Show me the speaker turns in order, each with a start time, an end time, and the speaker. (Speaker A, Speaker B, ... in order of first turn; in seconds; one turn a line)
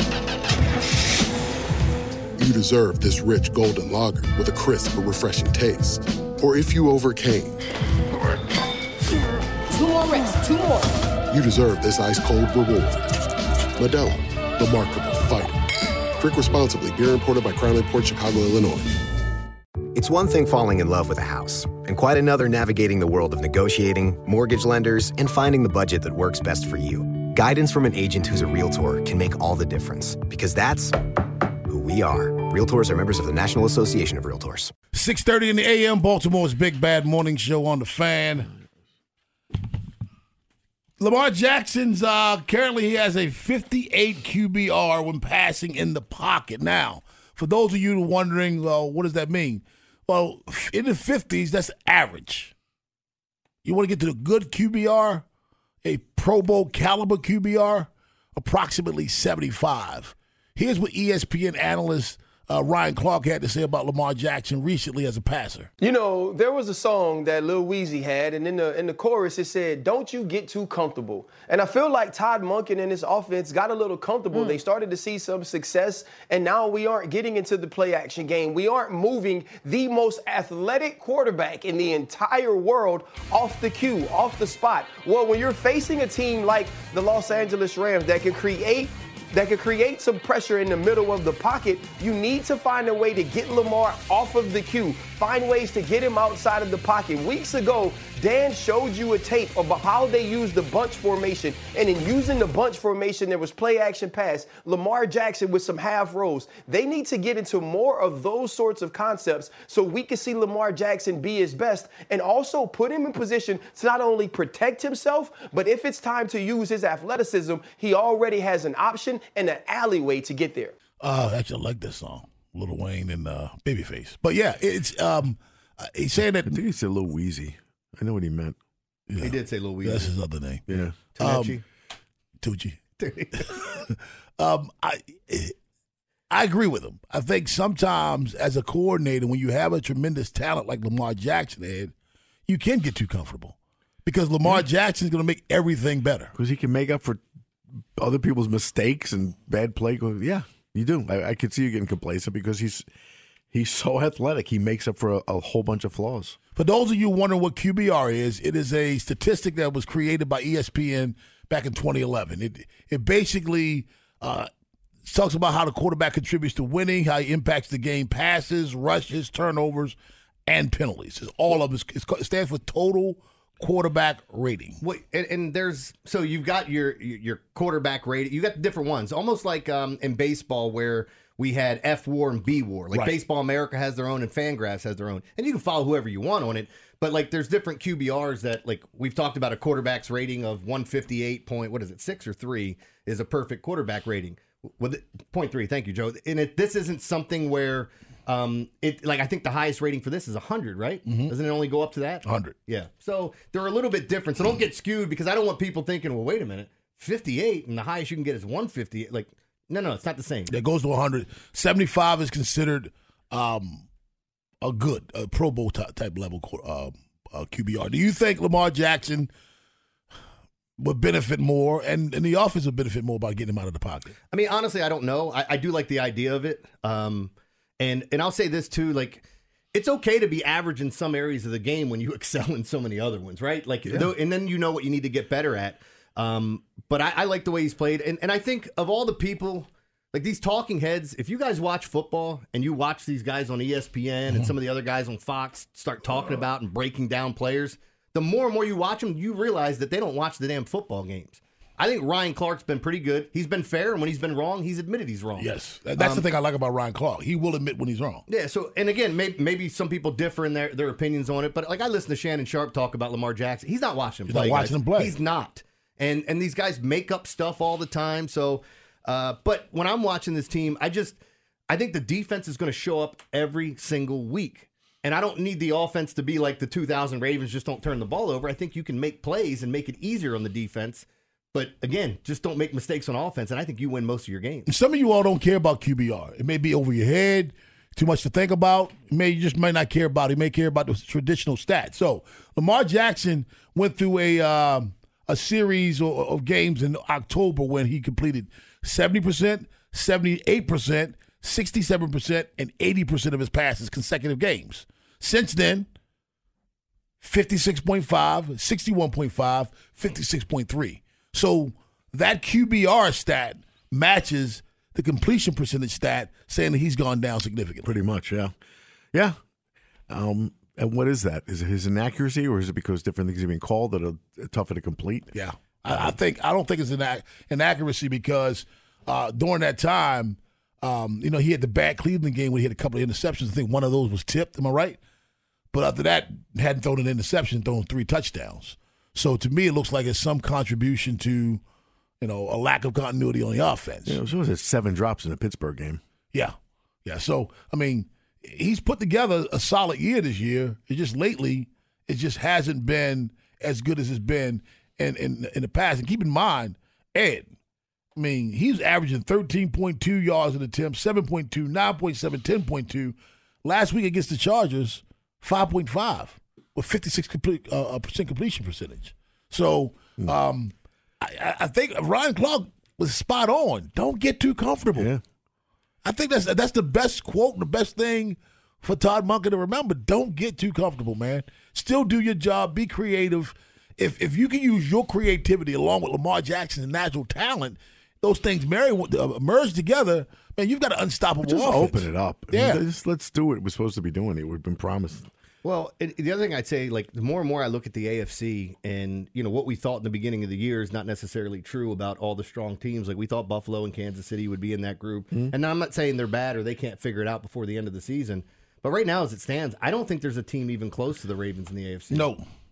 Speaker A: 2.4-7.6
Speaker A: 11.3-13.1
Speaker A: 13.8-15.6
Speaker A: 16.2-18.9
Speaker B: 19.9-31.0
Speaker B: 31.7-34.7
Speaker C: 34.9-38.5
Speaker C: 41.0-52.5
Speaker C: 53.6-55.2
Speaker C: 55.8-65.7
Speaker D: 65.8-120.7
Speaker C: 121.0-126.6
Speaker E: 126.5-128.6
Speaker C: 129.1-131.6
Speaker F: 129.2-130.1
Speaker E: 130.7-131.0
Speaker F: 131.1-131.6
Speaker C: 132.4-132.8
Speaker F: 133.0-133.4
Speaker C: 133.3-135.5
Speaker C: 136.3-141.9
Speaker C: 142.5-146.3
Speaker E: 146.3-147.2
Speaker E: 148.0-152.8
Speaker E: 153.5-156.4
Speaker C: 156.5-164.5
Speaker C: 165.0-174.8
Speaker F: 174.8-210.5
Speaker C: 201.1-201.3
Speaker C: 202.2-202.6
Speaker C: 210.5-213.8
Speaker C: 214.6-219.3
Speaker C: 220.8-224.2
Speaker F: 224.3-256.2
Speaker C: 255.3-258.2
Speaker F: 258.3-271.2
Speaker C: 264.3-265.1
Speaker F: 271.7-284.7
Speaker C: 284.7-305.9
Speaker C: 307.2-317.9
Speaker E: 317.8-318.5
Speaker E: 320.1-325.3
Speaker C: 325.3-335.0
Speaker C: 335.7-341.6
Speaker C: 342.2-344.2
Speaker E: 344.1-346.0
Speaker C: 346.3-357.5
Speaker C: 358.1-375.1
Speaker E: 374.9-375.2
Speaker C: 376.0-392.8
Speaker E: 391.4-395.3
Speaker F: 395.6-412.3
Speaker C: 412.1-412.4